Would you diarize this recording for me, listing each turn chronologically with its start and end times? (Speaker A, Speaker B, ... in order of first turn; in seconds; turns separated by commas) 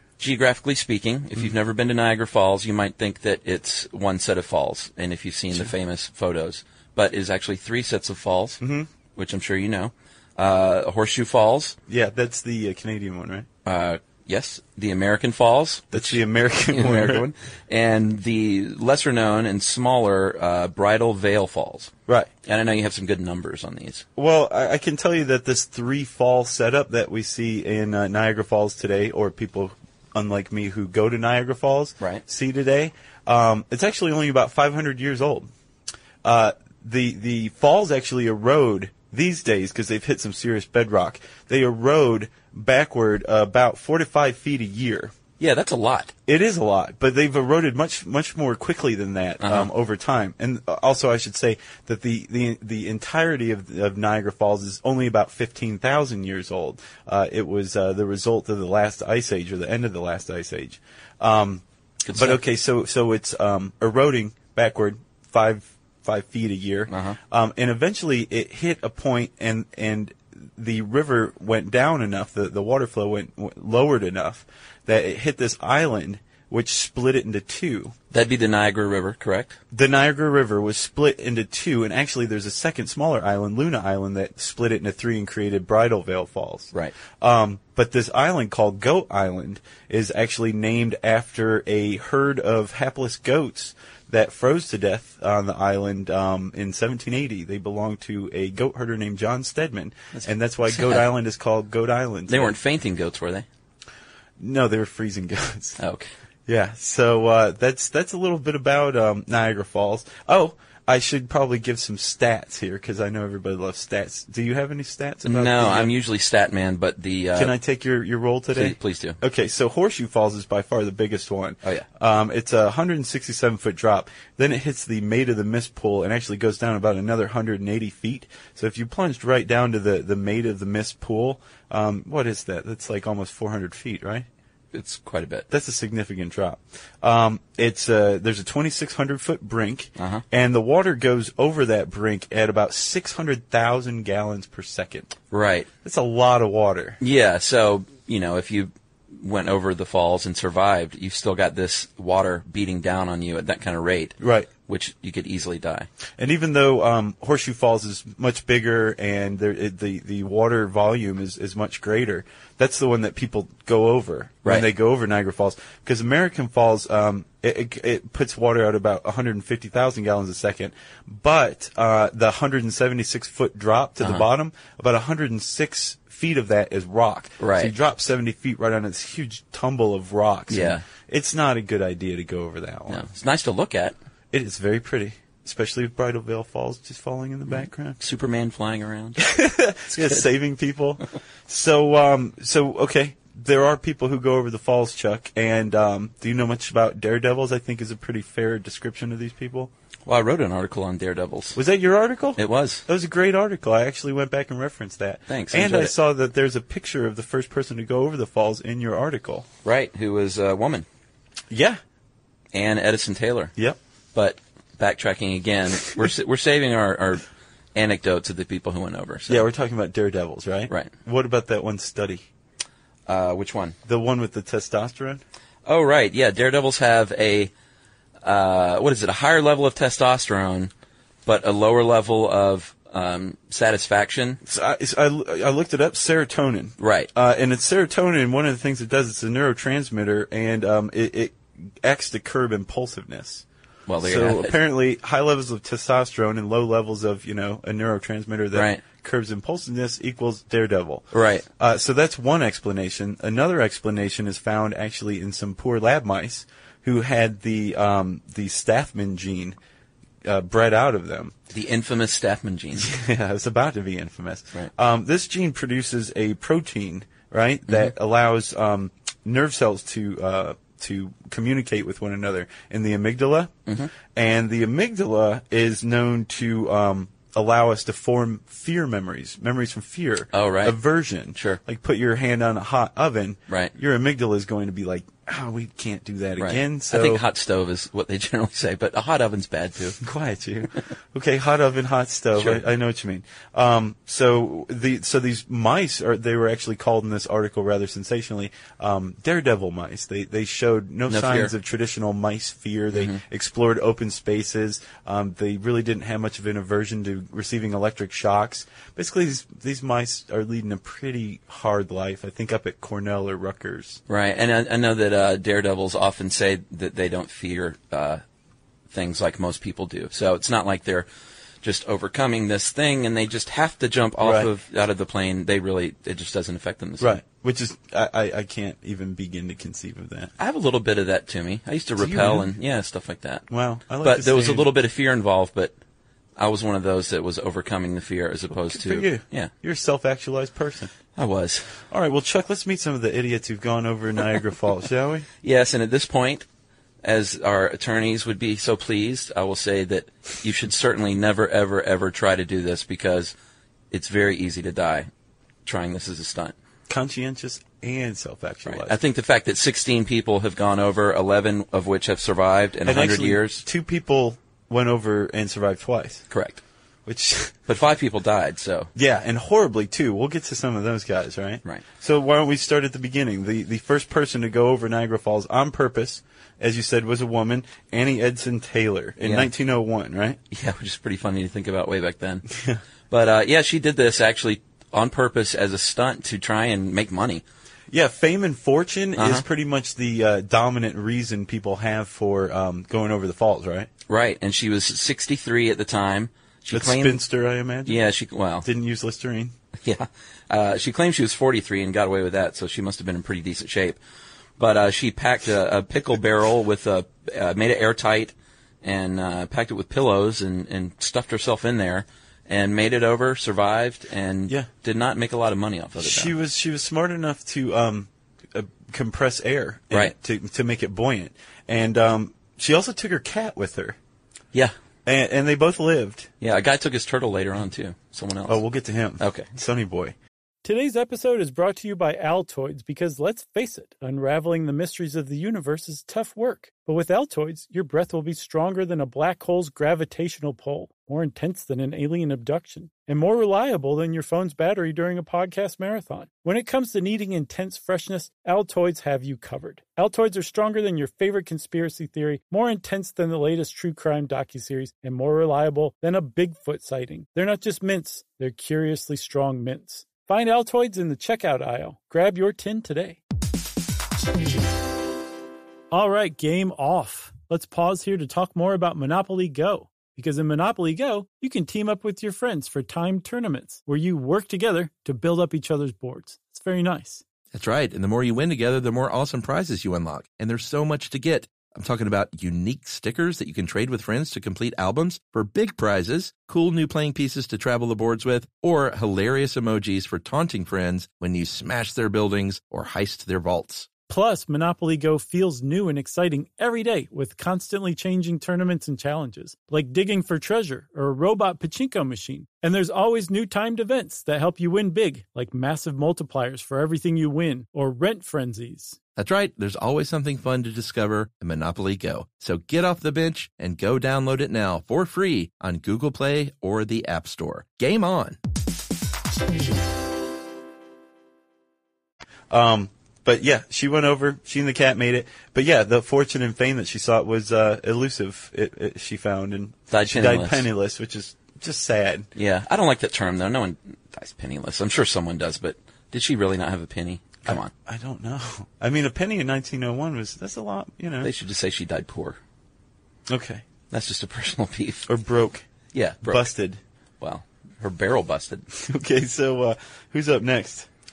Speaker A: 0.2-8.6, Speaker B: 8.6-8.9, Speaker A: 9.2-11.8, Speaker B: 11.9-13.5, Speaker A: 13.7-21.9, Speaker B: 15.9-17.3, Speaker A: 22.4-24.1, Speaker B: 24.2-35.5, Speaker B: 36.2-45.1, Speaker A: 45.4-46.1, Speaker B: 46.3-78.0, Speaker A: 49.4-49.7, Speaker A: 62.0-62.4, Speaker A: 66.9-67.2, Speaker A: 78.1-79.6, Speaker B: 79.7-102.5, Speaker A: 100.1-101.1, Speaker A: 102.3-103.5, Speaker B: 104.4-105.8, Speaker A: 105.8-106.1, Speaker B: 106.5-115.9, Speaker A: 115.2-117.5, Speaker B: 117.3-134.3, Speaker A: 118.5-119.2, Speaker A: 134.7-135.5, Speaker B: 135.5-145.2, Speaker A: 140.0-140.2, Speaker A: 145.3-145.7, Speaker B: 145.8-147.0, Speaker A: 147.0-155.9, Speaker B: 154.2-154.5, Speaker B: 156.2-183.1, Speaker A: 174.0-174.3, Speaker A: 177.4-177.7, Speaker A: 180.5-180.8, Speaker A: 182.9-183.9, Speaker B: 184.3-188.0, Speaker A: 187.5-189.3, Speaker B: 189.2-199.7, Speaker A: 189.9-190.2, Speaker A: 200.1-201.6, Speaker B: 201.6-209.5, Speaker A: 202.4-202.8, Speaker A: 205.3-205.9, Speaker A: 209.6-210.9, Speaker B: 211.5-211.8, Speaker A: 212.5-213.5, Speaker A: 214.1-219.4, Speaker B: 219.3-222.3, Speaker A: 223.1-223.8, Speaker B: 223.8-225.2, Speaker A: 225.7-227.5, Speaker A: 228.2-230.7, Speaker A: 231.3-234.4, Speaker B: 234.5-243.4, Speaker A: 236.8-237.1, Speaker A: 243.9-244.6, Speaker B: 244.0-259.6, Speaker A: 248.5-248.8, Speaker A: 251.1-251.5, Speaker B: 260.2-261.4, Speaker A: 261.5-262.9, Speaker B: 262.8-287.2, Speaker A: 280.3-280.8, Speaker A: 286.4-290.0, Speaker B: 290.0-314.0, Speaker A: 292.4-292.6, Speaker A: 301.1-301.5, Speaker A: 302.9-303.2, Speaker A: 314.1-318.2, Speaker A: 318.9-321.1, Speaker A: 321.6-327.2, Speaker B: 324.2-324.5, Speaker B: 327.0-330.3, Speaker A: 330.4-333.4, Speaker B: 332.0-332.5, Speaker B: 333.5-334.7, Speaker A: 334.0-335.8, Speaker A: 336.4-339.5, Speaker B: 338.5-340.9, Speaker A: 341.2-341.8, Speaker B: 341.9-345.3, Speaker A: 345.4-346.5, Speaker A: 347.0-353.3, Speaker A: 353.9-355.1, Speaker A: 355.7-356.5, Speaker B: 356.9-359.0, Speaker A: 358.7-363.6, Speaker B: 362.9-366.3, Speaker A: 366.3-366.6, Speaker B: 367.1-367.6, Speaker A: 367.7-368.9, Speaker B: 368.9-380.4, Speaker A: 379.2-379.5, Speaker A: 380.5-382.5, Speaker B: 382.6-382.8, Speaker A: 383.1-387.4, Speaker B: 387.9-393.9, Speaker A: 389.2-389.4, Speaker A: 394.1-397.2, Speaker B: 396.7-398.0, Speaker A: 397.9-398.7, Speaker B: 398.6-399.6, Speaker A: 399.8-404.0, Speaker A: 404.6-416.3, Speaker B: 416.0-424.0, Speaker B: 425.1-426.3, Speaker A: 426.4-428.6, Speaker B: 428.5-430.1, Speaker A: 429.2-429.5, Speaker C: 430.6-463.2, Speaker C: 465.9-477.2, Speaker D: 477.5-493.9, Speaker C: 494.1-509.0, Speaker D: 509.2-518.4, Speaker B: 522.5-532.3, Speaker A: 529.9-530.7, Speaker A: 532.4-537.7, Speaker B: 537.5-541.3, Speaker A: 541.2-542.4, Speaker B: 543.3-543.6, Speaker A: 543.9-545.1, Speaker B: 545.1-545.7, Speaker A: 545.9-546.5, Speaker B: 546.2-546.8, Speaker A: 547.2-548.7, Speaker B: 548.8-550.9